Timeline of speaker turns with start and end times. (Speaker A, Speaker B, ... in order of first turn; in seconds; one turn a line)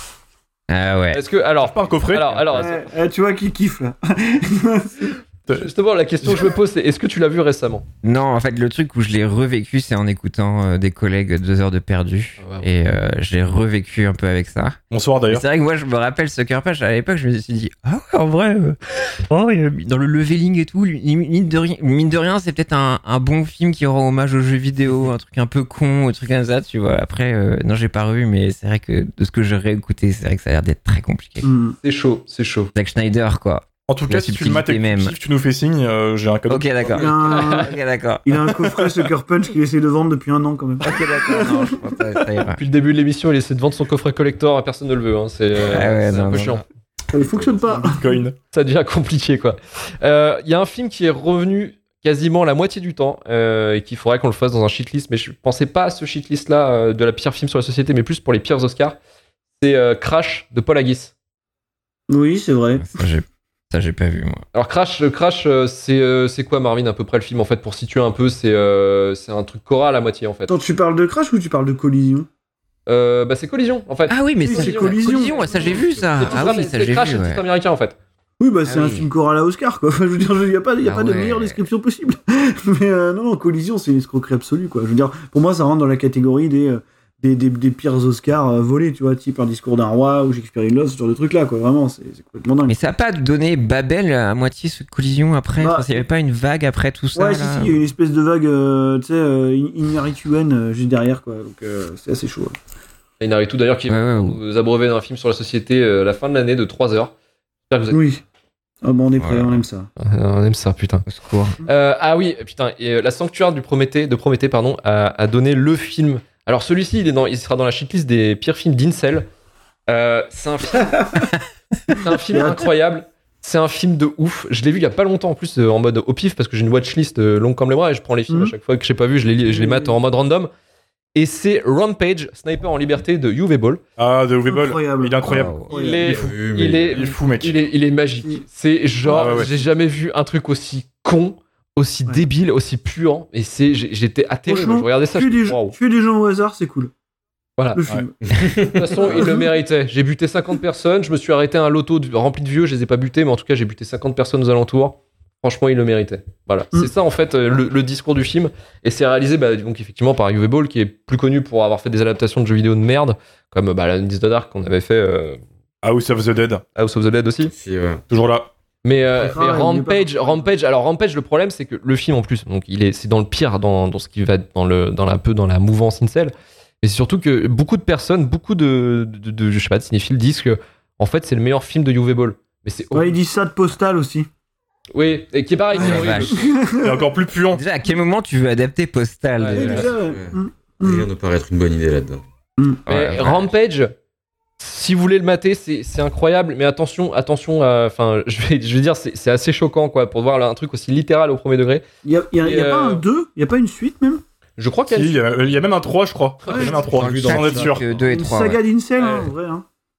Speaker A: 0.7-1.2
Speaker B: 1.1-2.9
Speaker C: 1.6-2.6
Speaker D: 2.5-5.2
Speaker B: 5.5-7.8
Speaker C: 6.2-6.5
Speaker A: 8.0-14.8
Speaker B: 12.4-12.7
Speaker C: 14.9-15.4
Speaker A: 15.3-31.5
Speaker D: 31.4-31.8
Speaker B: 31.8-32.7
Speaker A: 32.8-35.2
Speaker C: 33.9-37.1
Speaker A: 36.5-38.8
Speaker D: 36.9-37.7
Speaker B: 37.2-37.7
Speaker D: 38.2-42.0
Speaker A: 40.8-42.6
Speaker B: 42.6-46.6
Speaker A: 45.6-46.6
Speaker D: 47.1-48.2
Speaker E: 47.3-47.6
Speaker C: 47.8-48.4
Speaker B: 48.5-59.0
Speaker B: 59.6-61.1
Speaker D: 62.1-63.0
Speaker A: 62.8-64.4
Speaker B: 64.5-70.5
Speaker D: 70.5-72.3
Speaker B: 72.9-78.0
Speaker A: 74.1-77.4
Speaker D: 74.4-75.6
Speaker D: 76.3-76.5
Speaker D: 78.4-92.8
Speaker A: 78.6-79.1
Speaker A: 80.8-81.7
Speaker A: 92.7-97.8
Speaker D: 95.6-96.0
Speaker D: 97.1-102.5
Speaker B: 103.2-107.1
Speaker A: 103.9-104.4
Speaker B: 107.7-108.0
Speaker D: 107.9-108.2
Speaker D: 108.8-109.9
Speaker A: 109.2-109.6
Speaker B: 110.0-111.0
Speaker A: 111.1-111.6
Speaker B: 111.6-119.3
Speaker B: 119.9-121.0
Speaker D: 120.8-121.3
Speaker D: 121.9-122.7
Speaker B: 122.0-130.5
Speaker D: 128.3-128.5
Speaker D: 129.4-130.0
Speaker B: 131.1-133.8
Speaker C: 134.0-135.6
Speaker D: 134.5-136.2
Speaker A: 135.2-135.7
Speaker B: 135.7-145.8
Speaker E: 136.0-137.1
Speaker C: 136.9-137.6
Speaker D: 139.1-139.5
Speaker C: 139.1-139.5
Speaker D: 144.5-146.9
Speaker B: 147.6-147.8
Speaker D: 147.7-149.5
Speaker E: 148.2-148.8
Speaker B: 148.6-165.4
Speaker C: 165.8-166.6
Speaker B: 166.8-167.5
Speaker E: 167.4-168.0
Speaker C: 168.1-168.5
Speaker B: 168.8-183.2
Speaker D: 169.2-170.5
Speaker D: 182.9-184.3
Speaker B: 184.9-186.6
Speaker A: 185.8-186.5
Speaker D: 185.8-187.1
Speaker C: 186.8-187.6
Speaker A: 187.5-190.0
Speaker B: 189.4-189.9
Speaker D: 189.5-191.1
Speaker E: 189.8-192.2
Speaker A: 192.9-193.5
Speaker B: 192.9-193.9
Speaker B: 194.6-201.8
Speaker D: 202.0-204.2
Speaker B: 202.4-203.0
Speaker B: 204.6-205.2
Speaker C: 204.9-207.8
Speaker B: 206.4-206.8
Speaker D: 206.5-207.4
Speaker A: 206.8-208.6
Speaker E: 206.9-208.1
Speaker D: 208.1-209.6
Speaker B: 209.0-209.3